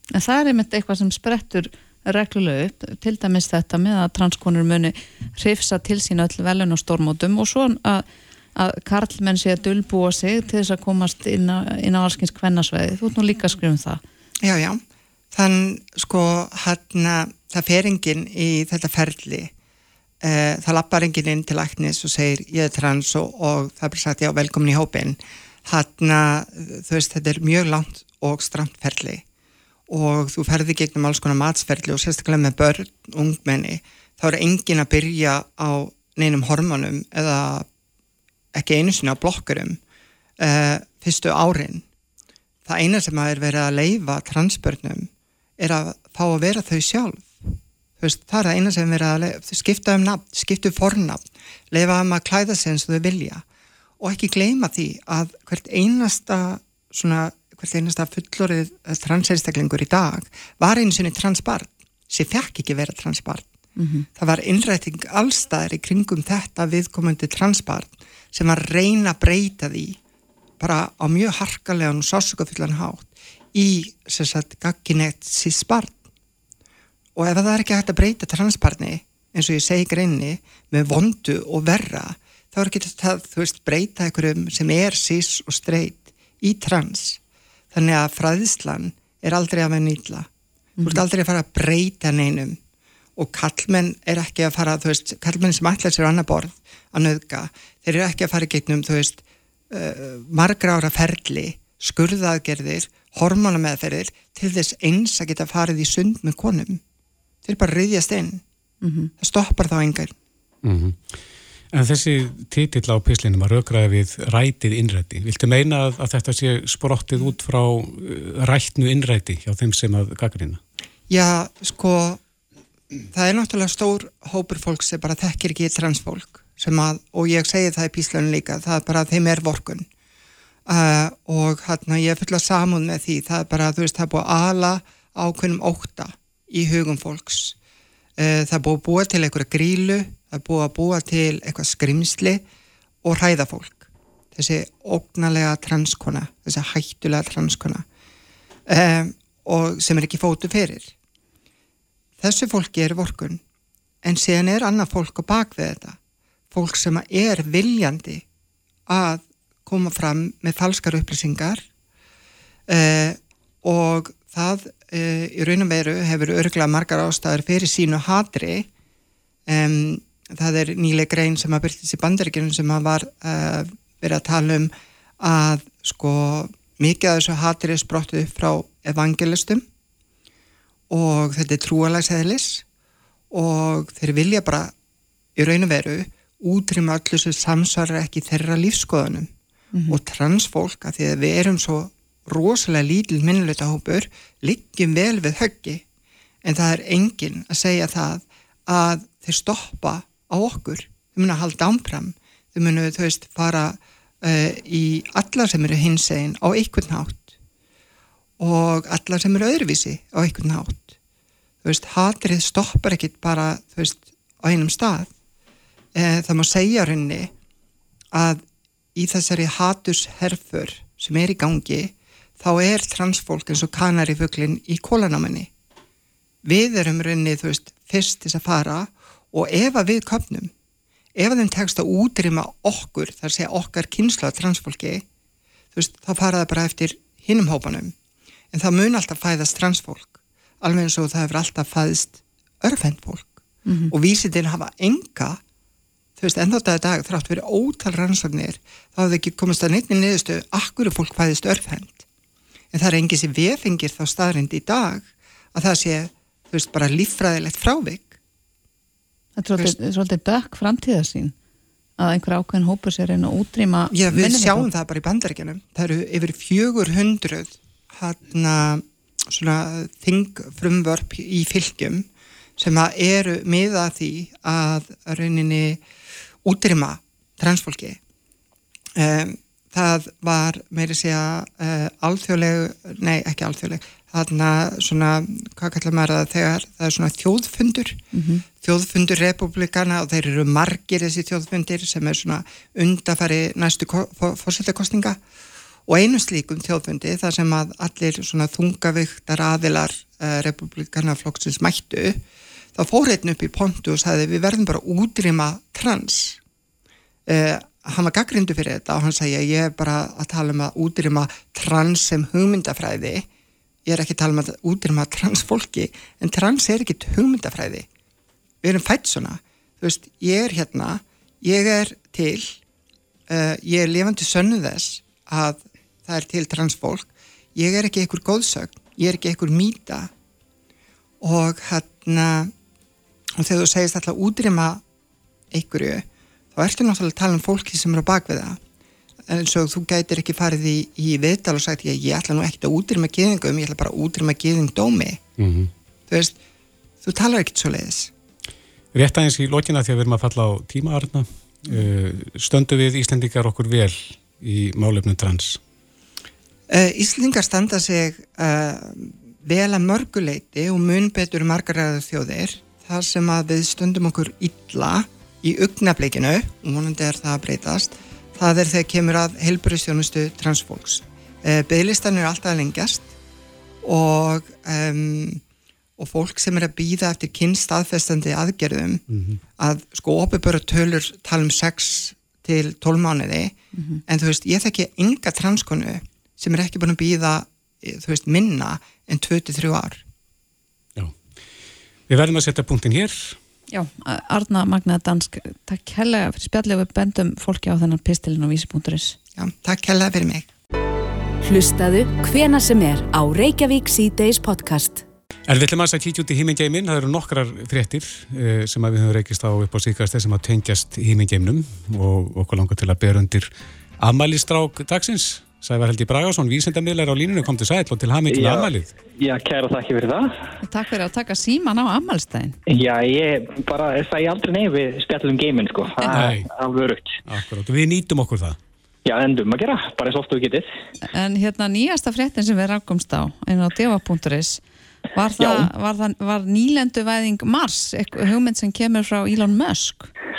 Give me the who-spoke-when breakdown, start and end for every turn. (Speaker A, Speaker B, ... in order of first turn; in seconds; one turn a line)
Speaker A: 0.1-14.0
Speaker B: 14.4-14.8
Speaker B: 15.3-19.5
Speaker B: 20.2-29.2
Speaker B: 29.9-37.7
Speaker B: 38.5-39.8
Speaker B: 40.4-41.8
Speaker B: 42.7-53.4
Speaker B: 54.0-63.5
Speaker A: 63.8-64.1
Speaker B: 64.2-70.0
Speaker B: 70.6-76.0
Speaker B: 77.2-87.2
Speaker B: 87.7-90.3
Speaker B: 90.8-92.6
Speaker B: 93.2-106.8
Speaker B: 107.5-108.4
Speaker A: 108.8-109.1
Speaker B: 109.2-110.1
Speaker C: 110.6-111.1
Speaker C: 111.7-120.6
Speaker B: 121.1-122.2
Speaker B: 123.1-129.9
Speaker B: 130.7-137.6
Speaker B: 138.2-142.4
Speaker B: 143.0-147.8
Speaker B: 148.7-150.9
Speaker B: 152.2-153.4
Speaker B: 154.0-156.0
Speaker B: 156.5-158.2
Speaker B: 158.9-161.6
Speaker B: 162.7-168.7
Speaker B: 169.5-179.7
Speaker B: 180.9-182.6
Speaker B: 183.3-184.7
Speaker B: 185.4-189.3
Speaker A: 189.7-190.0
Speaker B: 189.9-195.8
Speaker B: 196.4-207.3
Speaker B: 208.4-210.9
Speaker B: 211.6-215.1
Speaker B: 215.9-217.3
Speaker B: 218.1-218.4
Speaker B: 218.9-225.5
Speaker B: 226.4-230.5
Speaker B: 231.2-235.0
Speaker B: 235.8-237.9
Speaker B: 238.5-245.4
Speaker A: 243.7-243.9
Speaker B: 246.2-252.0
Speaker B: 252.7-258.2
Speaker A: 259.4-261.4
Speaker A: 262.0-264.7
Speaker B: 263.9-272.1
Speaker B: 272.6-275.8
Speaker B: 276.4-278.0
Speaker B: 279.0-288.0
Speaker A: 288.1-288.4
Speaker B: 288.6-295.2
Speaker B: 295.9-302.2
Speaker B: 302.8-306.4
Speaker B: 307.3-313.3
Speaker B: 313.9-317.9
Speaker B: 318.6-322.6
Speaker B: 323.3-330.1
Speaker B: 331.2-332.5
Speaker B: 333.4-334.8
Speaker B: 335.5-338.6
Speaker B: 339.3-345.2
Speaker C: 345.4-345.7
Speaker B: 346.1-346.4
Speaker B: 347.0-348.1
Speaker C: 348.9-355.6
Speaker B: 356.7-373.1
Speaker B: 373.8-375.4
Speaker B: 376.0-379.0
Speaker C: 379.1-379.4
Speaker B: 379.6-383.6
Speaker A: 383.7-384.0
Speaker B: 384.1-390.0
Speaker C: 392.1-393.4
Speaker A: 393.7-399.2
Speaker B: 399.4-400.5
Speaker D: 401.4-405.0
Speaker C: 405.5-418.9
Speaker E: 418.3-420.5
Speaker A: 420.6-422.6
Speaker E: 422.7-427.2
Speaker C: 426.1-426.5
Speaker C: 427.3-428.6
Speaker E: 429.1-430.7
Speaker A: 431.1-434.6
Speaker A: 435.1-440.1
Speaker E: 435.4-435.7